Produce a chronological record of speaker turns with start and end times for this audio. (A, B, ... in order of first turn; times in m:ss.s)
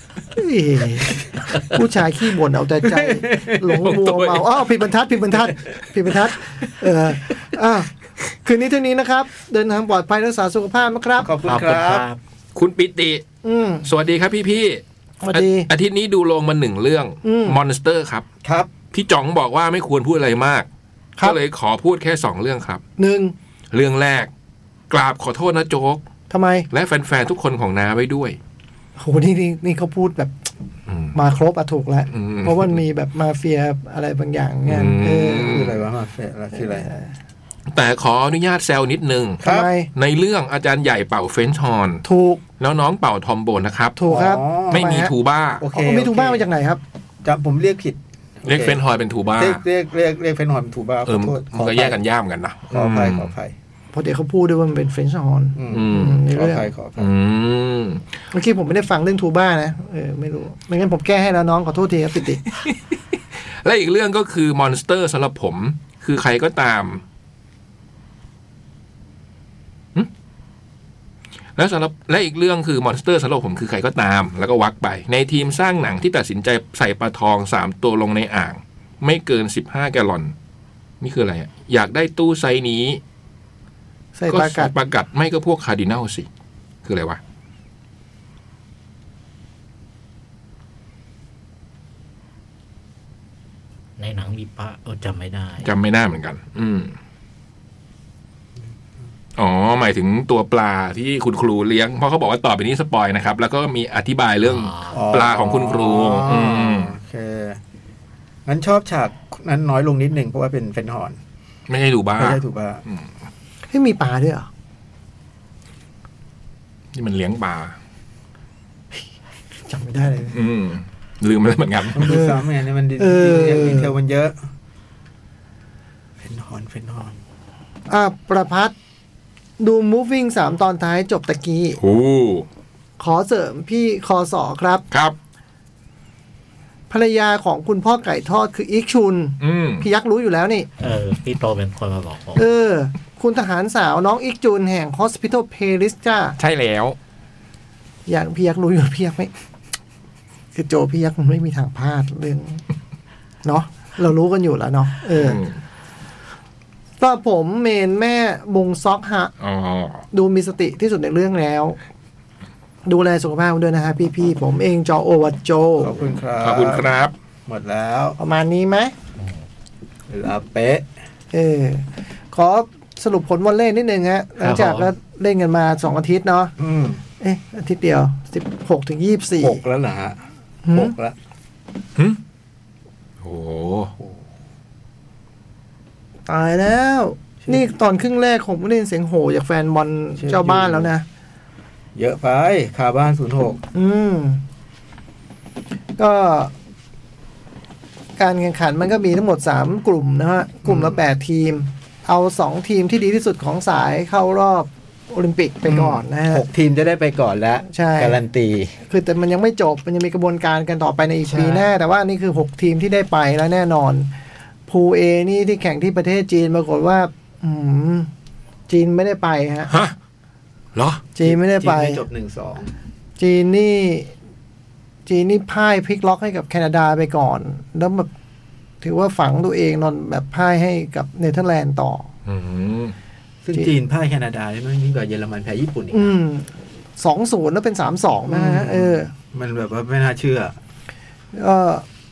0:00.3-0:07.9 A
0:02.8-0:03.8 B
0:03.8-0:04.6 C
0:08.4-0:11.3 A
0:11.2-0:12.0 B
0:11.4-0:12.2 D
0:12.6-0:13.2 C
0:13.4-0:13.9 A
0:13.8-0:18.2 C
0:15.2-0:15.7 A
0:17.2-0:17.6 A
0:18.4-0:18.7 B
0:18.9-0:20.7 C
0:21.2-0:22.8 C
0:23.0-0:23.4 A
0:23.7-0:24.3 C
0:24.9-0:26.0 C
0:26.3-0:26.7 A
0:26.7-0:28.4 C
0:29.0-0:30.5 A
0:30.9-0:31.2 C
0:31.1-0:35.6 A
0:32.1-0:32.8 C
0:34.7-0:35.8 C
0:35.3-0:36.9 B
0:36.7-0:37.1 A
0:37.7-0:42.0 C
0:39.4-0:39.7 B
0:39.4-0:39.9 A
0:42.0-0:42.4 A
0:42.6-0:44.0 C
0:44.0-0:45.1 A
0:44.1-0:44.9 B
0:44.7-0:45.6 C
0:45.6-0:46.5 B
0:45.7-0:46.8 A
0:47.2-0:48.8 B
0:48.4-0:49.6 C
0:49.4-0:52.0 B
0:51.1-0:53.3 C
0:52.7-0:53.5 B
0:53.9-0:56.7 A
0:55.6-0:57.1 B
0:55.7-0:56.2 C
0:57.0-0:58.0 C
0:58.3-1:02.4 A
1:02.5-1:07.0 C
1:11.6-1:20.3 C
1:21.0-1:23.0 C
1:24.2-1:24.7 A
1:24.3-1:26.3 C
1:26.8-1:27.2 C
1:34.0-1:35.7 D
1:35.6-1:37.0 C
1:39.4-1:47.0 C
1:44.4-1:45.1 D
1:44.9-1:47.6 B
1:48.5-1:51.2 B
1:51.7-1:53.1 C
1:52.2-1:52.8 B
1:53.7-1:54.5 A
1:56.9-1:57.8 C
1:59.7-2:00.4 A
2:00.3-2:02.1 C
2:01.9-2:04.4 B
2:02.0-2:02.5 A
2:03.0-2:04.0 A
2:06.2-2:07.2 B
2:07.9-2:08.8 A
2:09.6-2:11.8 A
2:11.8-2:12.5 C
2:13.0-2:14.8 A
2:16.9-2:20.7 A
2:19.4-2:19.9 C
2:20.8-2:22.4 D
2:22.4-2:26.4 A
2:26.4-2:27.0 C
2:28.1-2:29.3 A
2:30.5-2:32.6 A
2:33.4-2:35.4 A
2:35.2-2:35.6 C
2:37.0-2:39.3 A
2:39.4-2:40.0 C
2:40.1-2:41.8 A
2:42.8-2:46.0 A
2:45.8-2:46.9 B
2:46.4-2:47.1 C
2:47.5-2:48.2 B
2:48.2-2:48.9 A
2:50.1-2:50.8 B
2:51.3-2:56.5 A
2:54.6-2:54.9 C
2:56.6-2:57.0 B
2:57.2-2:59.6 A
2:59.4-3:01.2 B
3:00.6-3:01.0 A
3:03.2-3:03.9 C
3:06.3-3:11.1 A
3:10.2-3:10.9 B
3:12.0-3:13.6 B
3:13.7-3:14.4 A
3:16.0-3:16.5 A
3:18.2-3:26.4 A
3:20.7-3:21.0 B
3:25.7-3:28.8 B
3:27.7-3:28.2 A
3:28.9-3:34.1 A
3:31.2-3:31.7 B
3:34.7-3:38.1 A
3:38.7-3:39.7 A
3:39.7-3:40.0 C
3:40.8-3:41.0 C
3:41.2-3:42.0 A
3:41.2-3:42.7 B
3:43.2-3:44.1 A
3:45.1-3:48.1 A
3:48.8-3:52.1 A
3:52.3-3:53.0 C
3:53.4-3:56.1 B
3:55.9-3:59.1 A
3:58.3-4:00.5 B
4:01.3-4:01.9 A